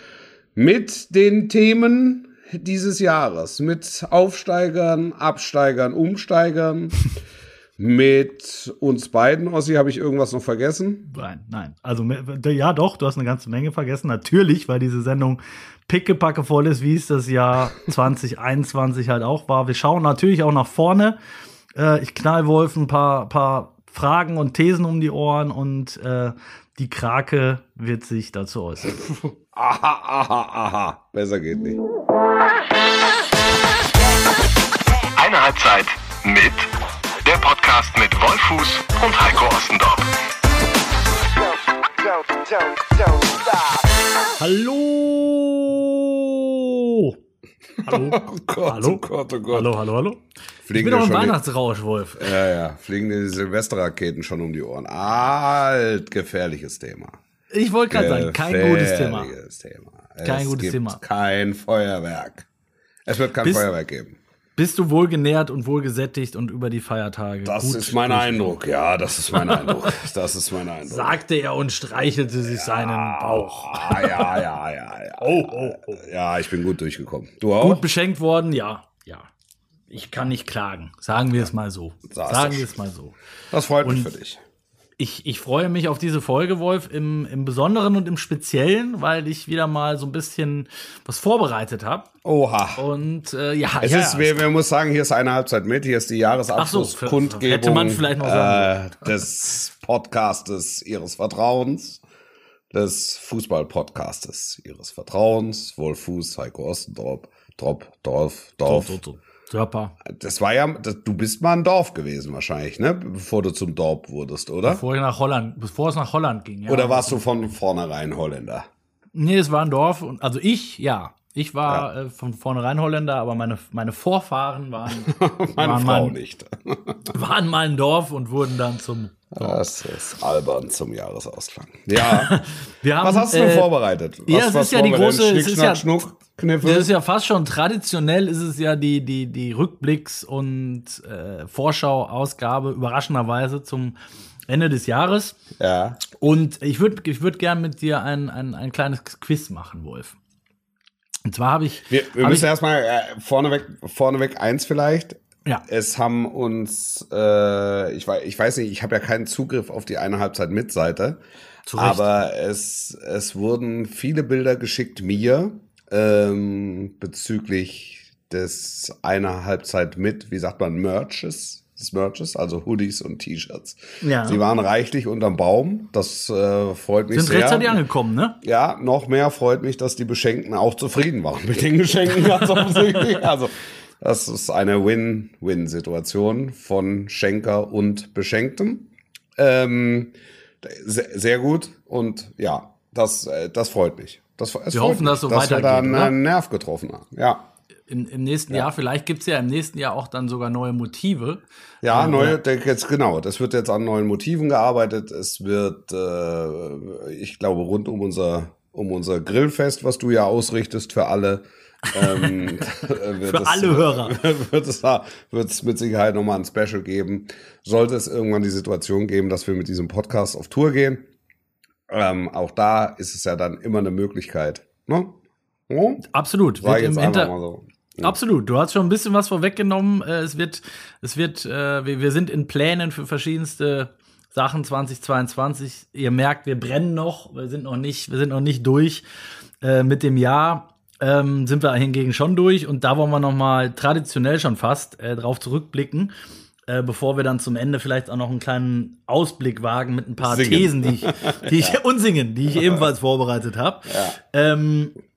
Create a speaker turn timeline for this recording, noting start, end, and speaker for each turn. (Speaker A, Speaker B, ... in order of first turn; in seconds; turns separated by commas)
Speaker A: 0.6-7.0, Speaker A: 7.8-11.1, Speaker B: 11.1-21.2, Speaker B: 21.8-29.2, Speaker A: 29.5-31.8, Speaker C: 35.2-36.7, Speaker C: 37.2-40.1, Speaker B: 44.4-47.2, Speaker A: 47.8-49.8, Speaker B: 47.9-50.2, Speaker A: 50.6-51.4, Speaker B: 50.7-52.3, Speaker A: 52.2-57.2, Speaker B: 57.5-59.3, Speaker A: 57.9-62.5, Speaker B: 60.2-61.0, Speaker A: 63.1-64.2, Speaker B: 63.4-63.7, Speaker B: 64.6-68.5, Speaker A: 67.4-71.2, Speaker B: 70.8-74.4, Speaker A: 72.5-77.8, Speaker B: 75.2-76.0, Speaker B: 77.6-79.3, Speaker B: 79.9-83.2, Speaker A: 82.1-82.7, Speaker A: 83.5-84.4, Speaker B: 83.8-84.1, Speaker B: 85.0-92.1, Speaker A: 92.2-92.8, Speaker B: 92.8-94.4, Speaker A: 93.8-102.0, Speaker B: 96.6-98.7, Speaker A: 102.7-109.0, Speaker B: 108.6-110.0, Speaker A: 110.0-114.8, Speaker B: 114.6-117.2, Speaker A: 116.7-118.7, Speaker B: 119.2-126.2, Speaker A: 125.0-127.1, Speaker B: 127.1-129.6, Speaker A: 129.3-132.4, Speaker B: 132.0-133.7, Speaker A: 133.0-136.9, Speaker B: 134.3-135.9, Speaker B: 136.6-144.0, Speaker B: 144.5-145.4, Speaker A: 145.6-146.0, Speaker B: 146.1-150.2, Speaker B: 151.3-152.5, Speaker A: 151.9-161.2, Speaker B: 161.7-162.1, Speaker A: 161.7-177.8, Speaker B: 174.0-174.4, Speaker B: 177.1-178.4, Speaker A: 178.4-197.5, Speaker B: 182.2-183.2, Speaker B: 194.7-196.2, Speaker B: 197.9-202.4, Speaker A: 201.8-221.1, Speaker B: 212.0-212.6, Speaker B: 213.2-214.2, Speaker A: 221.9-226.1, Speaker B: 226.1-227.3, Speaker A: 226.6-228.2, Speaker B: 228.0-239.0, Speaker B: 239.6-246.1, Speaker B: 246.7-254.9, Speaker A: 250.2-251.8, Speaker A: 252.5-252.8, Speaker A: 253.9-254.2